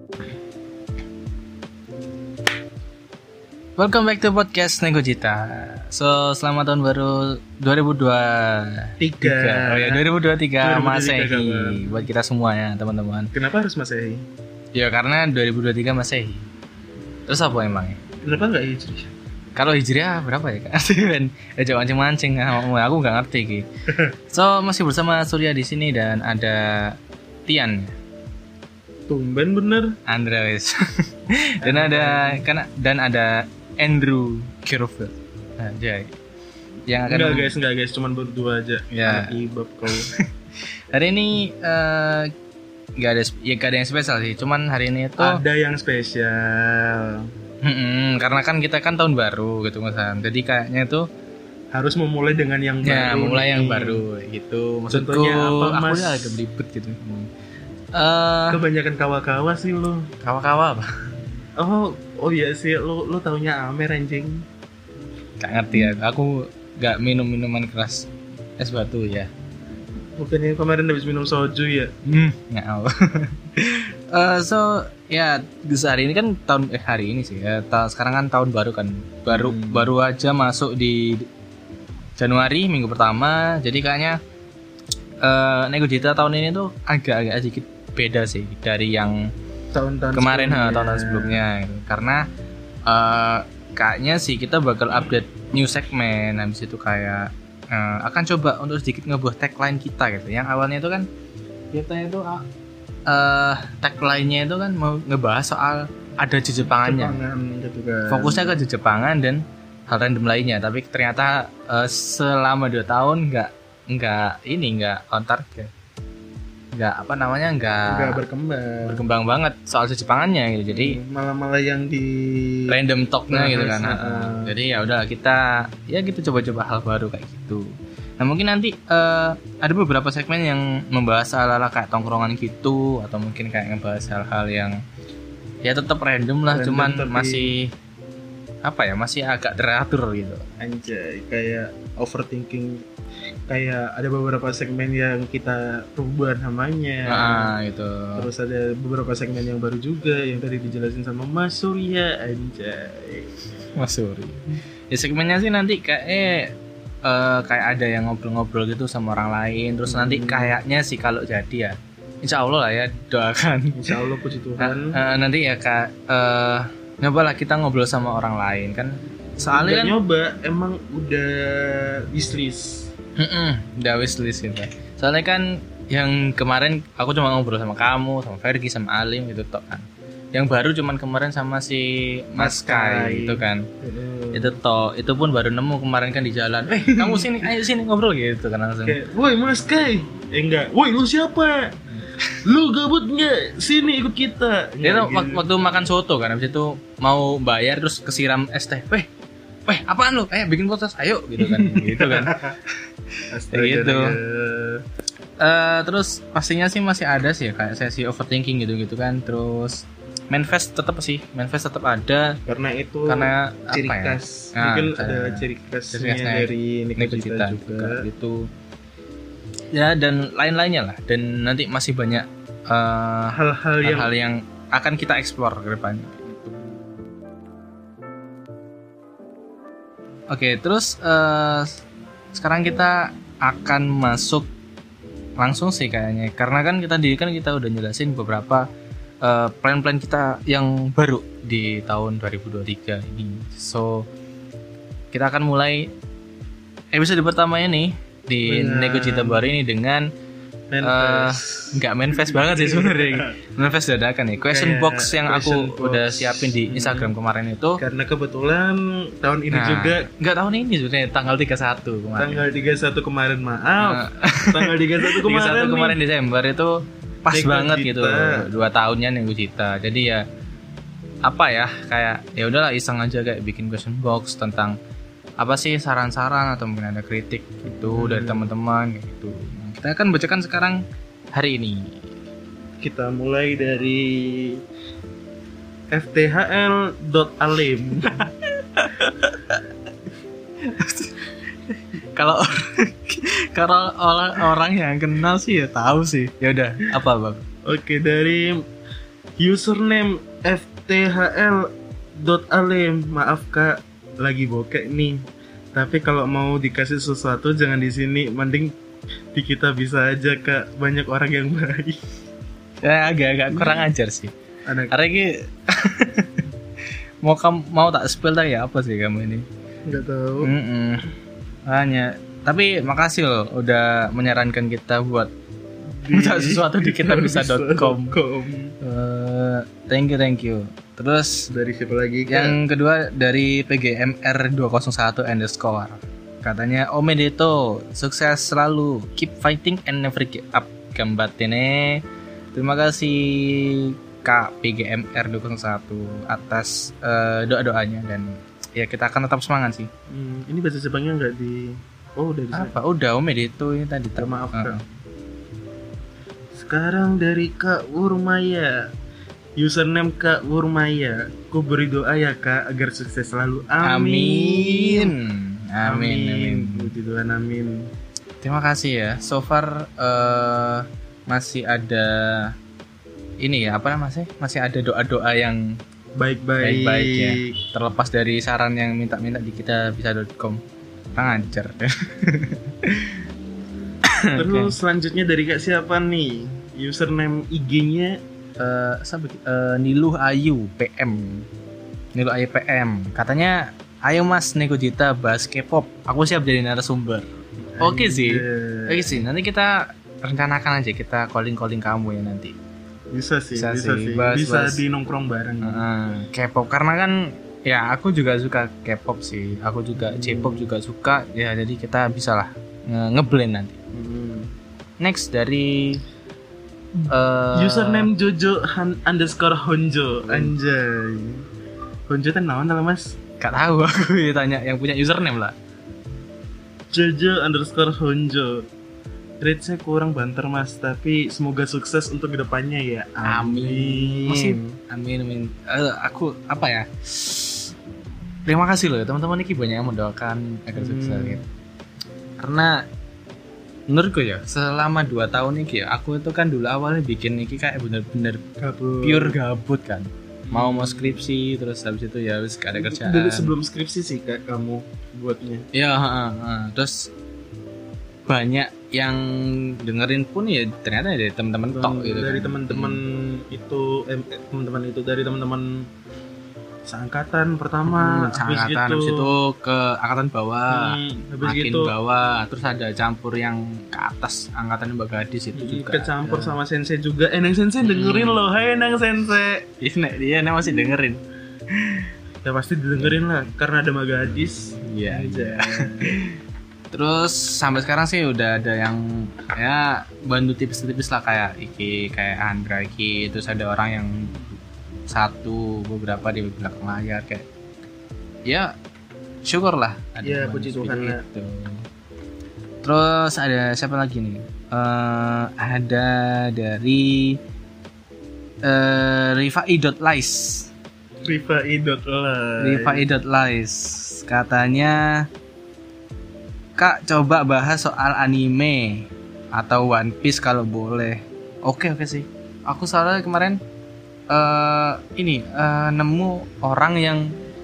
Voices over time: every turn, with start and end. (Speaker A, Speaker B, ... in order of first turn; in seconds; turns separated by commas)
Speaker A: 3.8-13.3, Speaker B: 9.0-10.1, Speaker B: 10.6-12.0, Speaker B: 13.3-14.2, Speaker A: 14.7-16.4, Speaker A: 17.3-18.0, Speaker B: 18.2-19.1, Speaker A: 19.6-27.9, Speaker B: 29.1-29.9, Speaker A: 30.1-36.1, Speaker B: 31.6-32.4, Speaker A: 36.9-37.5, Speaker B: 37.0-40.1, Speaker A: 38.9-39.3, Speaker A: 39.9-42.3, Speaker A: 43.0-45.4, Speaker B: 45.2-47.2, Speaker A: 47.6-51.1, Speaker B: 51.7-54.0, Speaker A: 52.8-57.3, Speaker B: 54.9-56.4, Speaker A: 57.9-58.6, Speaker B: 58.5-60.0, Speaker A: 60.2-60.9, Speaker B: 61.6-64.4, Speaker A: 65.4-68.1, Speaker A: 68.6-69.3, Speaker B: 70.2-71.9, Speaker A: 72.0-81.2, Speaker B: 79.3-79.9, Speaker A: 82.2-84.2, Speaker A: 85.2-89.3, Speaker B: 89.7-91.4, Speaker A: 90.1-92.2, Speaker A: 92.8-101.1, Speaker A: 101.7-102.5, Speaker A: 103.1-107.2, Speaker B: 106.7-108.6, Speaker A: 108.1-115.7, Speaker A: 116.7-118.2, Speaker B: 117.9-119.0, Speaker A: 118.8-121.0, Speaker B: 120.7-122.8, Speaker A: 122.7-127.7, Speaker B: 123.3-124.5, Speaker A: 128.2-134.8, Speaker A: 135.6-137.7, Speaker B: 136.5-137.5, Speaker A: 138.6-140.4, Speaker B: 140.6-142.8, Speaker B: 143.5-147.5, Speaker A: 147.1-148.3, Speaker B: 148.2-153.3, Speaker A: 153.7-163.9, Speaker B: 159.9-160.6, Speaker B: 163.8-165.0, Speaker A: 164.6-169.9, Speaker B: 169.5-172.9, Speaker A: 173.2-183.7, Speaker B: 182.3-184.5, Speaker A: 184.3-189.0, Speaker B: 186.8-187.3, Speaker B: 188.8-191.7, Speaker B: 192.4-195.5, Speaker A: 194.8-199.1, Speaker A: 199.7-202.5, Speaker B: 201.4-202.5, Speaker B: 203.3-204.8, Speaker A: 203.5-204.2, Speaker A: 205.4-212.4, Speaker B: 212.5-218.1, Speaker A: 213.1-218.5, Speaker A: 219.7-226.7, Speaker B: 223.3-224.1, Speaker A: 230.3-231.8, Speaker A: 232.3-234.5, Speaker A: 235.4-238.7, Speaker A: 239.2-244.1, Speaker A: 245.1-245.9, Speaker A: 246.9-250.1, Speaker B: 248.4-249.5, Speaker B: 250.7-253.3, Speaker A: 250.8-257.8, Speaker B: 254.4-257.1, Speaker B: 257.8-260.1, Speaker A: 259.5-262.4, Speaker B: 262.1-266.0, Speaker A: 263.8-266.7, Speaker A: 267.2-270.2, Speaker B: 267.3-268.4, Speaker A: 271.2-274.8, Speaker A: 275.4-280.8, Speaker B: 277.8-278.5, Speaker A: 281.3-282.0, Speaker B: 282.8-284.6, Speaker B: 285.9-288.1, Speaker A: 288.1-289.6, Speaker A: 290.6-297.4, Speaker B: 297.6-298.6, Speaker B: 299.4-305.2, Speaker B: 305.7-308.7, Speaker B: 309.3-312.0, Speaker A: 312.8-314.3, Speaker B: 313.5-313.9, Speaker B: 314.7-314.9, Speaker A: 314.9-316.4, Speaker A: 317.2-319.4, Speaker B: 319.9-320.5, Speaker A: 320.4-321.1, Speaker A: 321.7-325.3, Speaker B: 326.0-328.7, Speaker A: 326.1-328.2, Speaker A: 328.8-331.5, Speaker B: 331.5-332.6, Speaker A: 332.3-342.0, Speaker A: 342.5-349.9, Speaker B: 350.1-352.8, Speaker A: 352.5-354.8, Speaker B: 354.2-354.9, Speaker B: 356.6-358.9, Speaker B: 359.6-365.1, Speaker A: 363.8-366.9, Speaker B: 365.8-367.9, Speaker A: 368.4-372.5, Speaker A: 373.4-375.8, Speaker B: 376.1-377.5, Speaker A: 376.6-380.6, Speaker A: 381.1-383.2, Speaker A: 384.0-384.7, Speaker B: 384.4-388.2, Speaker A: 388.6-391.5, Speaker A: 392.1-397.2, Speaker B: 397.8-399.3, Speaker A: 397.8-402.6, Speaker B: 403.1-405.8, Speaker A: 403.5-404.8, Speaker A: 405.6-413.8, Speaker B: 410.0-410.7, Speaker B: 413.9-414.5, Speaker A: 415.0-416.0, Speaker B: 417.0-421.4, Speaker A: 417.1-418.1, Speaker A: 420.2-420.5, Speaker B: 422.1-423.2, Speaker A: 423.4-425.5, Speaker B: 426.9-428.6, Speaker B: 429.4-434.8, Speaker A: 433.2-437.7, Speaker A: 438.4-441.4, Speaker B: 440.7-441.4, Speaker A: 442.4-442.8, Speaker A: 443.9-448.4, Speaker B: 448.6-449.4, Speaker A: 449.0-453.5, Speaker B: 450.5-451.2, Speaker B: 452.7-455.7, Speaker A: 455.7-457.1, Speaker A: 458.3-463.0, Speaker B: 461.7-465.9, Speaker B: 466.9-469.3, Speaker A: 467.9-476.6, Speaker B: 470.7-471.9, Speaker B: 475.5-479.6, Speaker A: 477.8-478.4, Speaker A: 479.8-481.2, Speaker B: 482.4-486.2, Speaker A: 484.8-486.3, Speaker A: 486.9-494.6, Speaker A: 495.1-497.4, Speaker A: 498.4-498.7, Speaker A: 499.4-501.8, Speaker B: 500.2-501.2, Speaker A: 502.8-507.4, Speaker A: 508.6-510.7, Speaker B: 511.2-513.1, Speaker A: 512.6-515.3, Speaker A: 516.8-523.6, Speaker A: 524.3-527.3